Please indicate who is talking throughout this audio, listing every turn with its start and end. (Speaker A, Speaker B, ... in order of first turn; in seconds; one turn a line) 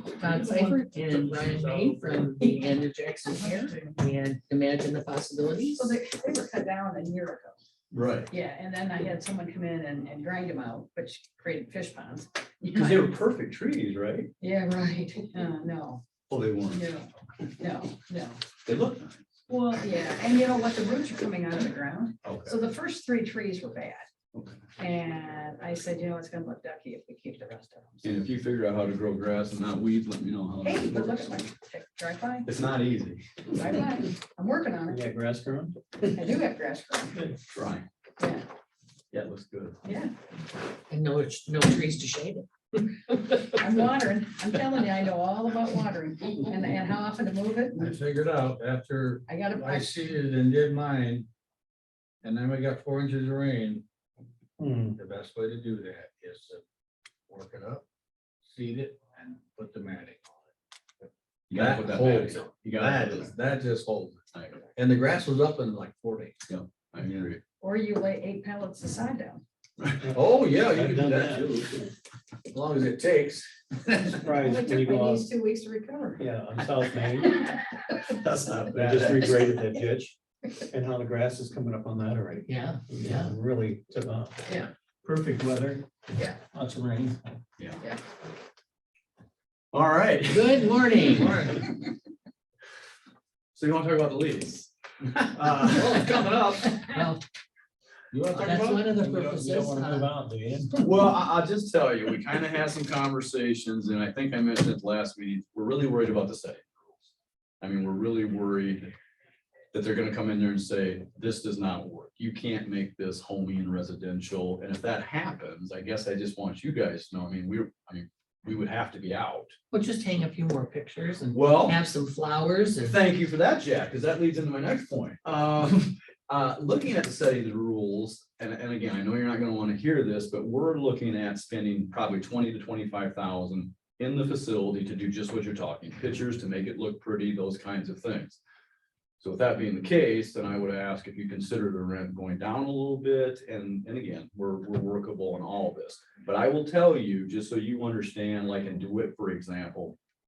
Speaker A: 0.2-5.9
Speaker B: 0.3-0.6
Speaker C: 0.4-2.3
Speaker D: 5.7-7.5
Speaker B: 7.9-8.3
Speaker D: 8.3-13.1
Speaker B: 12.7-14.3
Speaker D: 14.4-16.0
Speaker B: 16.3-16.9
Speaker D: 16.7-18.4
Speaker B: 18.6-19.3
Speaker D: 19.5-24.1
Speaker B: 22.2-22.5
Speaker D: 24.8-28.1
Speaker B: 28.0-31.4
Speaker D: 30.6-32.5
Speaker B: 32.4-33.3
Speaker D: 33.5-35.0
Speaker E: 34.9-36.3
Speaker D: 36.1-37.2
Speaker B: 37.5-37.9
Speaker D: 38.2-38.5
Speaker B: 39.1-39.8
Speaker D: 39.8-40.1
Speaker A: 40.9-43.6
Speaker D: 43.6-47.9
Speaker C: 47.8-51.3
Speaker D: 49.3-50.0
Speaker C: 52.2-53.8
Speaker E: 54.6-55.0
Speaker C: 55.0-56.6
Speaker C: 57.3-57.8
Speaker C: 58.4-60.4
Speaker B: 61.5-63.3
Speaker C: 61.5-64.2
Speaker B: 64.3-64.6
Speaker C: 64.8-66.4
Speaker B: 66.5-67.4
Speaker D: 67.6-69.4
Speaker B: 69.8-70.0
Speaker E: 70.0-71.8
Speaker C: 70.1-71.9
Speaker C: 72.5-74.4
Speaker E: 74.2-75.3
Speaker D: 74.4-76.2
Speaker E: 76.2-77.4
Speaker D: 77.2-78.1
Speaker E: 78.2-80.2
Speaker B: 78.6-79.1
Speaker C: 78.8-79.0
Speaker E: 80.7-84.4
Speaker A: 82.5-83.3
Speaker E: 85.0-85.8
Speaker E: 86.5-87.3
Speaker B: 89.7-91.8
Speaker A: 90.3-91.5
Speaker B: 93.5-96.7
Speaker C: 95.4-97.0
Speaker A: 96.8-97.2
Speaker C: 98.1-99.0
Speaker A: 98.4-100.1
Speaker E: 99.0-100.7
Speaker B: 100.8-107.1
Speaker B: 107.6-108.9
Speaker B: 109.7-119.5
Speaker A: 119.7-123.0
Speaker B: 121.3-121.8
Speaker B: 122.8-138.4
Speaker B: 139.2-150.0